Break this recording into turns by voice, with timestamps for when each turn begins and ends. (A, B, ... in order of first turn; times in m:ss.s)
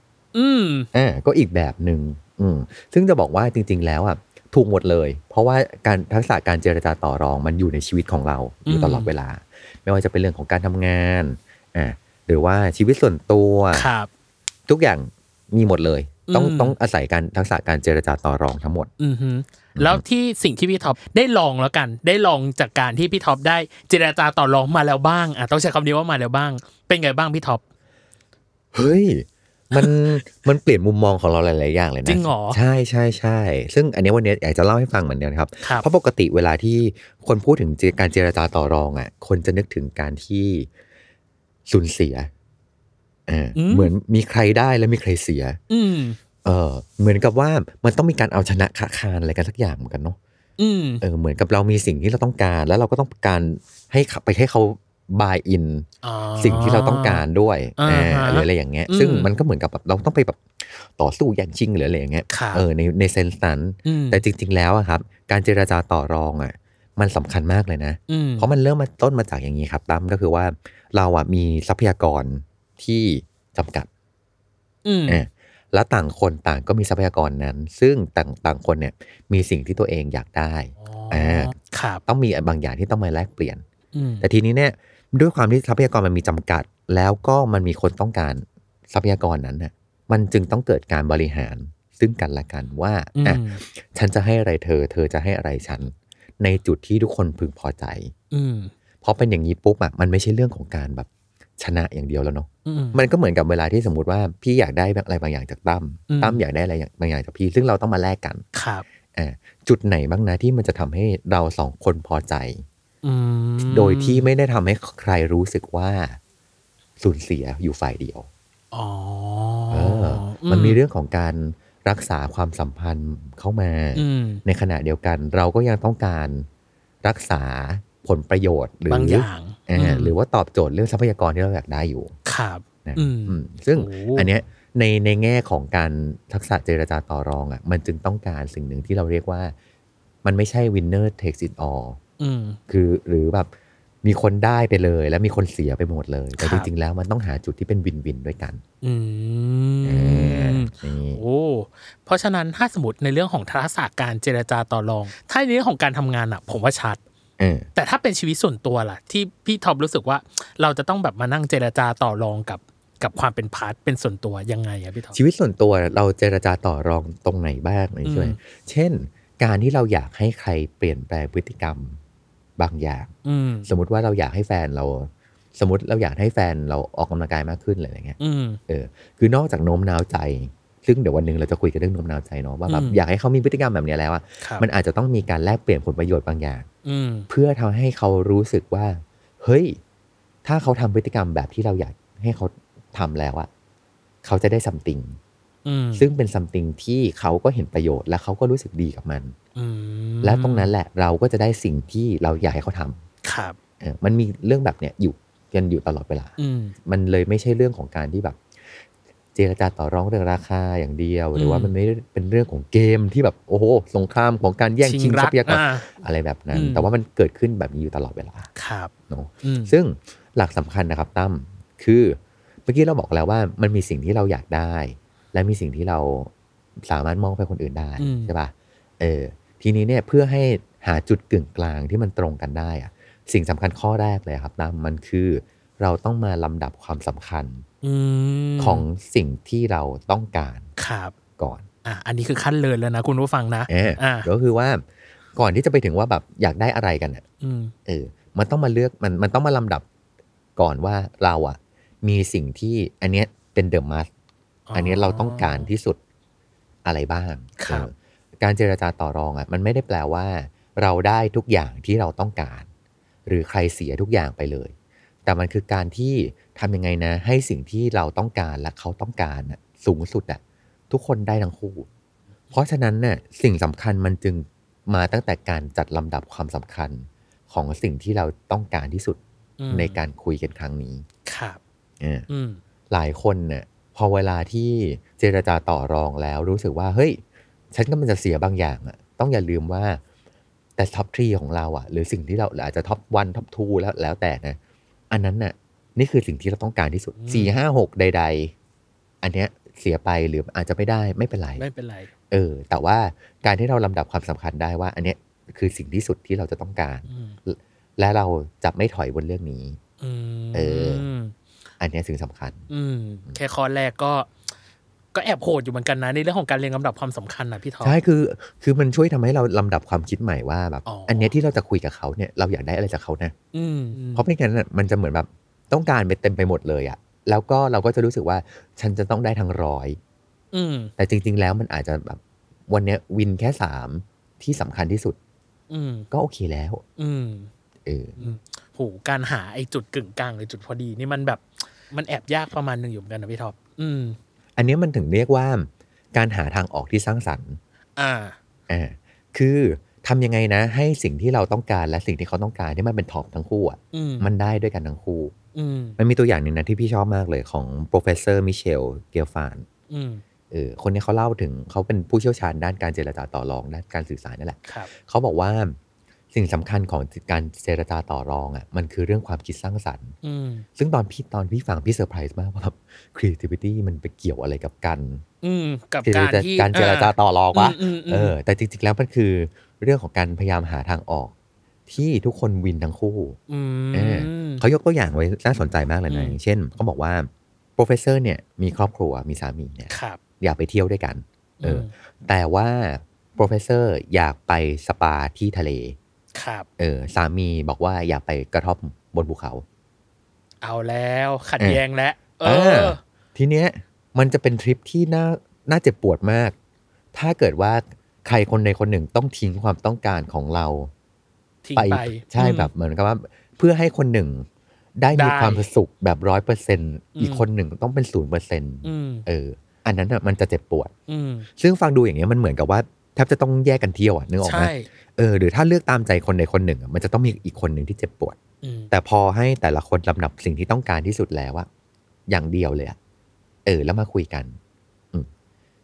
0:00.3-0:00.9 A
0:00.9-0:13.9 B
0:08.7-0:09.1 A
0:13.7-0:14.1 A
0:14.7-0:18.9 B
0:16.3-0:16.8 A
0:19.0-0:27.6 A
0:19.8-0:20.0 B
0:28.7-0:40.7 B
0:32.0-0:32.6 A
0:35.6-0:35.9 A
0:41.7-0:42.3 B
0:43.3-0:45.6 B
0:43.6-0:43.9 A
0:45.7-0:46.2 A
0:46.4-0:50.2 B
0:50.6-0:51.0 A
0:51.0-0:55.9 B
0:56.0-0:57.2 A
0:56.4-1:13.9 B
0:57.8-0:59.3 A
1:02.3-1:02.6 A
1:03.8-1:04.2 A
1:08.1-1:08.5 A
1:14.8-1:15.2 A
1:15.1-1:21.5 B
1:20.8-1:22.0 A
1:22.1-1:23.6 B
1:23.9-1:24.2 A
1:24.2-1:38.1 B
1:33.2-1:33.6 A
1:38.3-1:38.7 A
1:39.0-1:48.4 B
1:42.6-1:43.0 A
1:46.1-1:46.4 A
1:48.5-1:48.8 A
1:49.2-1:52.6 B
1:53.0-1:54.3 A
1:53.6-1:56.2 B
1:57.0-1:58.3 B
1:58.7-2:00.8 A
1:59.7-2:06.5 B
2:04.0-2:04.4 A
2:07.0-2:12.1 B
2:08.9-2:10.2 A
2:12.3-2:14.3 A
2:12.8-2:19.6 B
2:20.2-2:22.0 B
2:22.2-2:22.6 A
2:22.7-2:23.5 B
2:24.0-2:28.6 B
2:26.4-2:26.7 A
2:28.8-2:37.0 A
2:29.8-2:31.2 B
2:37.4-2:37.7 B
2:37.8-2:45.2 A
2:45.1-2:52.0 B
2:48.0-2:48.4 A
2:52.6-2:53.1 B
2:53.2-2:53.7 A
2:53.7-3:06.7 B
2:58.2-2:58.6 A
3:02.7-3:03.0 A
3:04.4-3:04.7 A
3:06.8-3:07.3 A
3:07.3-3:09.8 B
3:10.4-3:13.5 B
3:14.2-3:15.2 B
3:15.6-3:16.1 A
3:16.0-3:19.4 B
3:19.6-3:20.7 A
3:20.2-3:23.0 B
3:23.2-3:23.6 A
3:23.8-3:26.4 B
3:26.4-3:26.7 A
3:26.9-3:28.8 B
3:29.4-3:38.5 B
3:31.4-3:31.7 A
3:34.8-3:35.9 A
3:36.5-3:36.9 A
3:38.6-3:38.9 A
3:39.1-3:57.7 B
3:39.4-3:39.7 A
3:48.0-3:48.3 A
3:57.8-3:58.9 A
3:58.6-4:00.7 B
4:00.8-4:01.2 A
4:01.4-4:01.7 B
4:01.8-4:04.3 A
4:03.7-4:04.8 B
4:05.4-4:07.2 B
4:07.4-4:07.7 A
4:07.9-4:09.8 B
4:10.6-4:14.1 B
4:14.7-4:15.7 A
4:14.7-4:16.0 B
4:16.8-4:22.7 B
4:17.6-4:17.9 A
4:23.3-4:24.7 B
4:25.2-4:31.9 B
4:32.5-4:39.2 B
4:39.6-4:40.0 A
4:39.7-4:41.0 B
4:41.2-4:41.6 A
4:42.0-4:42.3 B
4:42.3-4:42.6 A
4:42.9-4:50.0 B
4:50.8-4:54.6 B
4:55.1-4:58.5 B
4:57.2-4:57.6 A
4:59.2-5:01.6 B
5:01.6-5:02.1 A
5:02.3-5:09.8 B
5:07.1-5:07.4 A
5:10.0-5:11.4 A
5:10.5-5:11.1 B
5:11.8-5:12.7 B
5:12.7-5:14.3 A
5:15.1-5:18.0 A
5:17.8-5:23.3 B
5:20.9-5:21.4 A
5:23.5-5:24.3 A
5:24.1-5:30.0 B
5:30.5-5:30.9 A
5:31.0-5:35.2 B
5:35.7-5:36.1 A
5:36.1-5:36.8 B
5:37.0-5:37.5 A
5:37.9-5:38.2 B
5:38.2-5:44.2 A
5:44.6-5:47.6 B
5:48.0-5:48.4 A
5:48.7-5:55.3 B
5:53.9-5:54.3 A
5:55.5-5:56.0 A
5:56.0-5:59.7 B
5:59.9-6:00.2 A
6:00.5-6:05.8 B
6:06.3-6:10.2 B
6:10.2-6:10.6 A
6:10.8-6:15.2 B
6:15.4-6:18.4 A
6:16.0-6:21.3 B
6:21.9-6:23.4 B
6:23.5-6:24.6 A
6:23.9-6:36.0 B
6:26.1-6:26.4 A
6:29.9-6:30.2 A
6:31.6-6:31.9 A
6:36.3-6:36.7 A
6:36.8-6:39.6 B
6:40.6-6:43.0 A
6:42.4-6:46.6 B
6:47.1-6:50.9 B
6:51.6-6:52.7 A
6:51.8-6:54.5 B
6:55.0-7:00.9 B
6:55.1-6:55.6 A
6:57.2-6:57.4 A
6:58.8-6:59.2 A
7:01.1-7:01.5 A
7:01.6-7:08.4 B
7:04.4-7:04.9 A
7:08.6-7:08.9 A
7:08.9-7:11.7 B
7:12.3-7:13.0 B
7:13.6-7:14.6 B